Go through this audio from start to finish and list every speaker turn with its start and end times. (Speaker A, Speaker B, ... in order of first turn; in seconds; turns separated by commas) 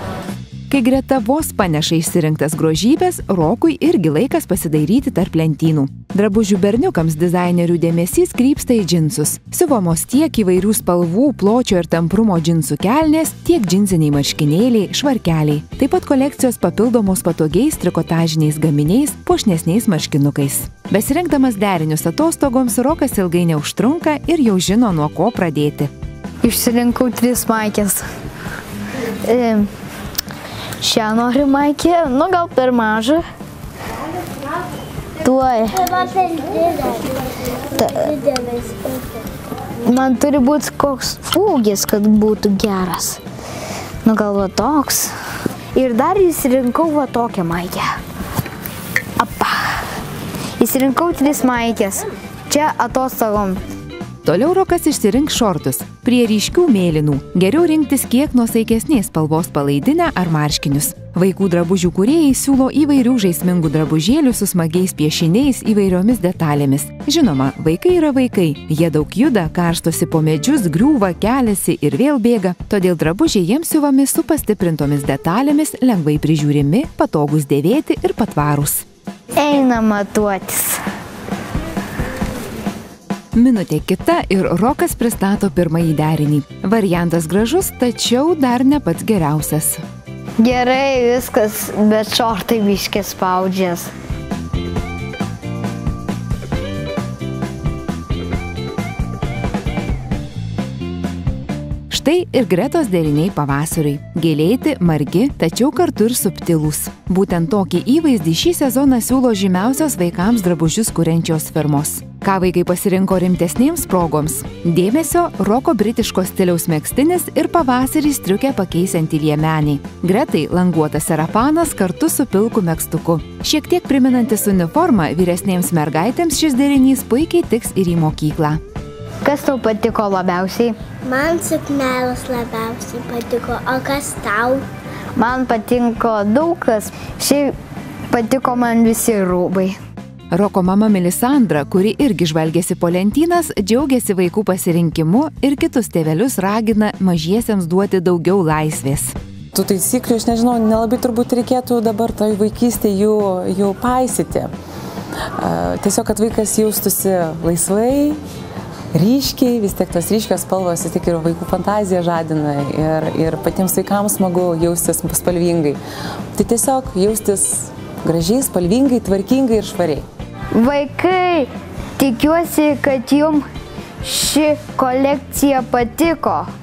Speaker A: 0.7-25.9, Speaker B: 26.4-28.0, Speaker B: 29.2-29.7, Speaker B: 30.8-33.2, Speaker B: 35.2-35.9, Speaker C: 35.8-39.2, Speaker B: 39.8-43.2, Speaker B: 44.0-45.1, Speaker B: 45.7-47.9, Speaker B: 49.2-49.8, Speaker B: 50.6-53.6, Speaker A: 54.2-78.8, Speaker B: 79.4-80.8, Speaker A: 83.3-89.8, Speaker B: 90.4-93.9, Speaker A: 101.9-128.6, Speaker B: 129.2-130.8, Speaker C: 131.0-134.7, Speaker B: 135.2-137.5, Speaker B: 138.1-139.8, Speaker A: 140.3-149.1, Speaker D: 149.5-154.5, Speaker D: 155.4-158.2, Speaker D: 158.9-165.8, Speaker D: 166.3-170.1, Speaker B: 170.5-173.4, Speaker B: 174.0-176.5